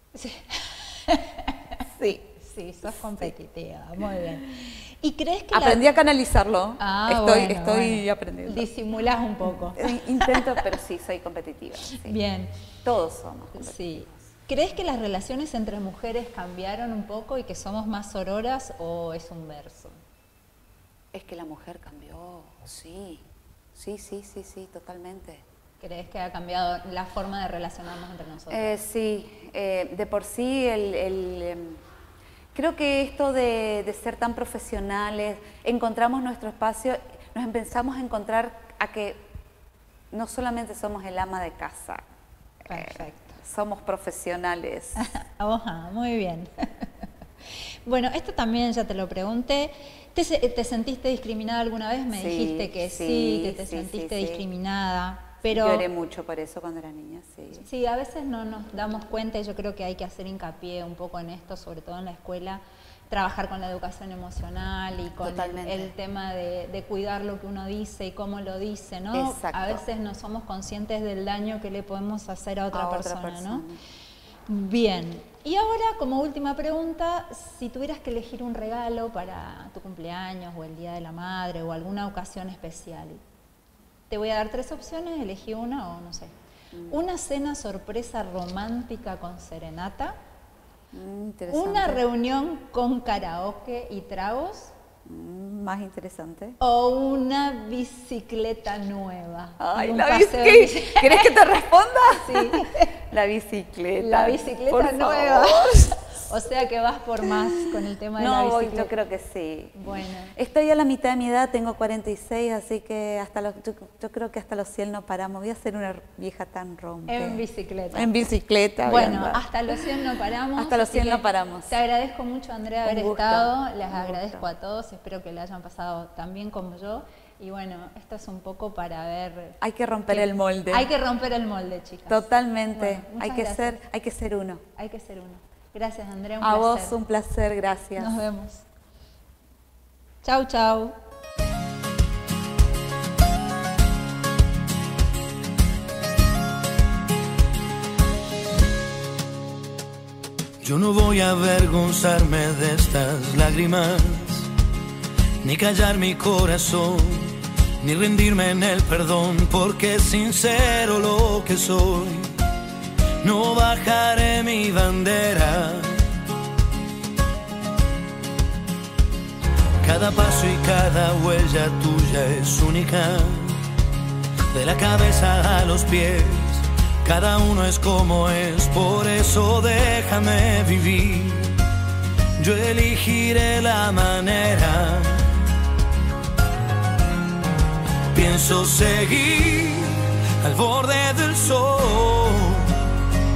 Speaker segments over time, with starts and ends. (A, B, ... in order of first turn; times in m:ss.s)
0:00.1-0:01.8 A
0:01.9-0:02.3 B
0:02.4-0:05.9 A
0:02.9-0:03.3 B
0:05.5-0:08.7 B
0:06.8-0:10.6 A
0:09.4-0:12.2 B
0:11.9-0:12.5 A
0:12.8-0:13.9 B
0:13.6-0:19.9 A
0:21.1-0:25.4 B
0:25.8-0:28.7 A
0:28.5-0:31.8 B
0:32.5-0:39.2 B
0:40.1-0:42.0 B
0:42.7-0:43.4 A
0:42.7-0:45.0 B
0:45.0-0:46.9 A
0:47.8-0:55.8 A
0:52.1-0:54.4 B
0:55.4-0:57.6 B
0:57.6-1:13.6 A
1:05.2-1:05.9 B
1:09.1-1:09.8 B
1:12.7-1:13.8 B
1:14.5-1:23.2 A
1:24.1-1:26.3 A
1:26.9-1:30.2 A
1:30.9-1:32.0 B
1:31.5-1:34.7 A
1:35.0-1:36.6 B
1:36.6-1:41.3 A
1:39.6-1:46.0 B
1:42.1-1:42.9 A
1:44.0-1:48.9 A
1:47.2-1:59.4 B
1:49.7-1:50.3 A
1:57.1-1:58.2 A
1:58.8-2:09.6 A
2:00.6-2:01.7 B
2:02.8-2:04.4 B
2:09.6-2:10.9 B
2:10.1-2:12.2 A
2:12.1-2:14.6 B
2:12.7-2:13.8 A
2:14.8-2:17.0 A
2:16.4-2:18.2 B
2:18.0-2:18.6 A
2:20.2-2:21.0 A
2:30.6-2:34.5 C
2:35.4-2:42.3 C
2:43.2-2:46.0 C
2:49.8-2:53.6 C
2:54.5-3:01.6 C
3:02.4-3:05.3 C
3:08.1-3:12.8 C